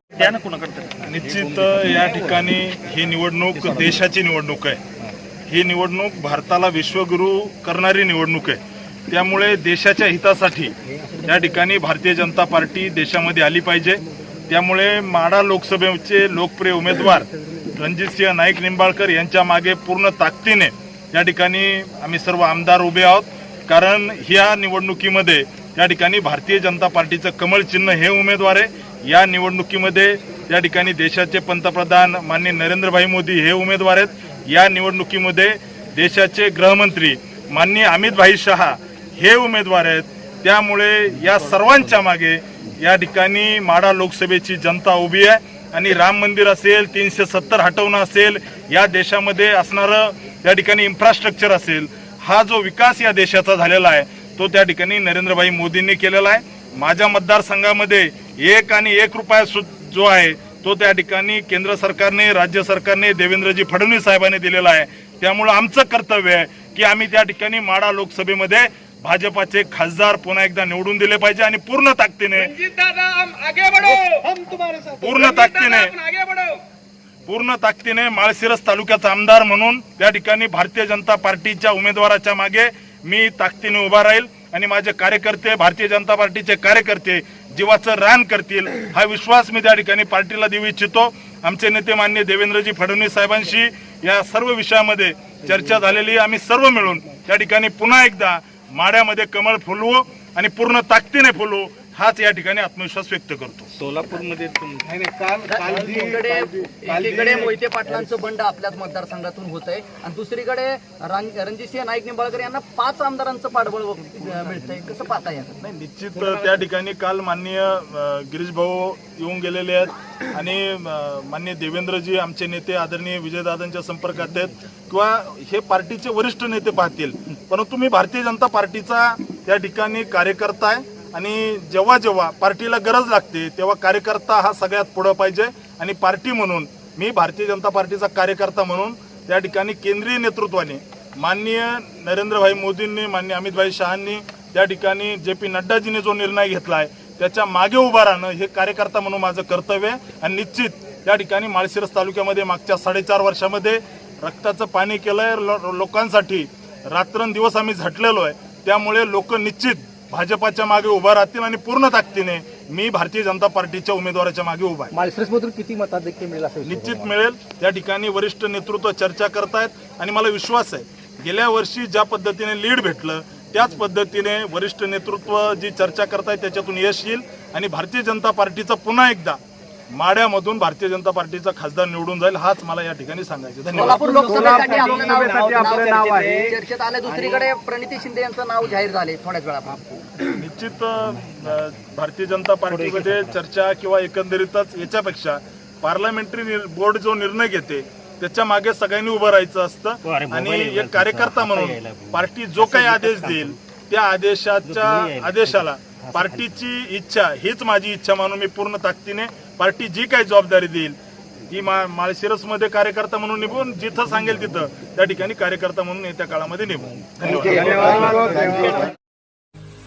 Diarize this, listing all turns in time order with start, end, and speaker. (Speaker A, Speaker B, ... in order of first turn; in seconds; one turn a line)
Speaker A: 0.2-2.4
Speaker B: 0.8-4.8
Speaker B: 5.5-72.6
Speaker C: 72.5-76.5
Speaker B: 75.0-76.0
Speaker B: 77.3-103.7
Speaker D: 103.9-104.6
Speaker C: 104.8-107.6
Speaker E: 105.5-115.6
Speaker B: 115.6-164.9
Speaker A: 165.0-167.0
Speaker C: 165.0-165.4
Speaker C: 166.2-166.9
Speaker B: 166.6-179.4
Speaker B: 179.9-184.0
Speaker E: 183.8-190.2
Speaker C: 183.8-187.4
Speaker B: 190.4-211.0
Speaker D: 192.7-193.4
Speaker D: 200.1-203.6
Speaker D: 204.7-206.6
Speaker B: 211.5-218.3
Speaker C: 217.2-218.9
Speaker A: 218.0-218.4